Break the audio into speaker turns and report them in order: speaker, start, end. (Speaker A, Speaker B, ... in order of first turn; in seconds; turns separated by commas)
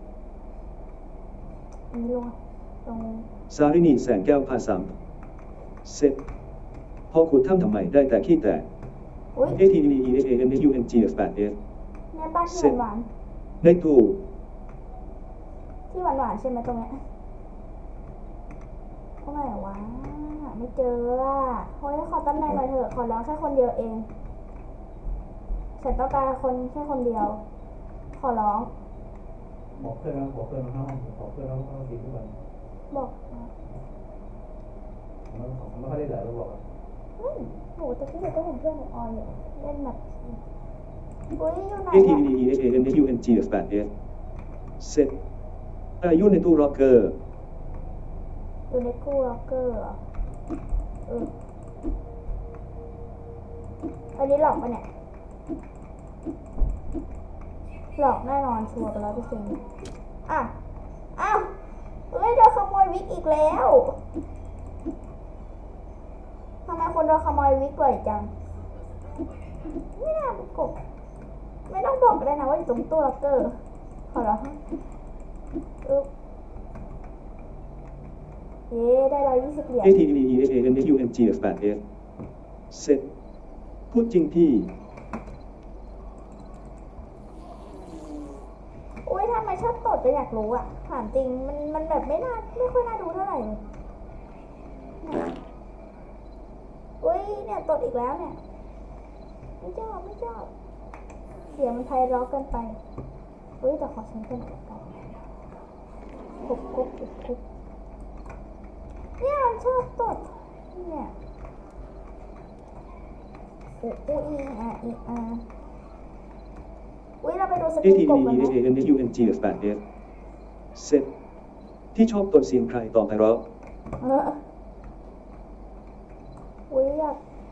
Speaker A: 1.9-3.3, Speaker B: 3.5-4.9, Speaker B: 5.8-6.2, Speaker B: 7.1-8.7, Speaker B: 9.5-11.6, Speaker A: 12.1-13.1, Speaker B: 12.5-12.8, Speaker B: 13.6-14.2, Speaker A: 15.9-17.0, Speaker A: 19.2-24.1, Speaker A: 25.8-27.4, Speaker A: 28.2-28.7, Speaker C: 29.8-32.4, Speaker A: 32.9-33.5, Speaker C: 35.3-36.6, Speaker A: 37.2-40.4, Speaker A: 41.4-42.3, Speaker B: 41.9-43.9, Speaker B: 44.8-45.1, Speaker B: 46.0-47.2, Speaker A: 48.7-50.0, Speaker A: 54.2-54.9, Speaker A: 58.0-59.6, Speaker A: 60.3-60.5, Speaker A: 61.2-61.5, Speaker A: 62.1-64.0, Speaker A: 66.7-68.3, Speaker A: 70.0-70.8, Speaker A: 71.7-73.6, Speaker A: 74.1-74.6, Speaker A: 78.7-80.0, Speaker B: 79.8-81.8, Speaker B: 82.7-83.0, Speaker B: 83.9-84.7, Speaker A: 89.1-93.6, Speaker A: 95.0-95.3, Speaker A: 97.0-98.4, Speaker A: 99.6-100.5, Speaker A: 101.5-102.8, Speaker A: 103.6-105.1, Speaker A: 106.4-107.4, Speaker A: 109.2-111.1, Speaker A: 113.8-115.5, Speaker A: 117.2-118.6, Speaker B: 117.8-119.8, Speaker B: 120.8-121.1, Speaker B: 121.9-123.5, Speaker A: 124.0-124.4, Speaker A: 126.7-127.2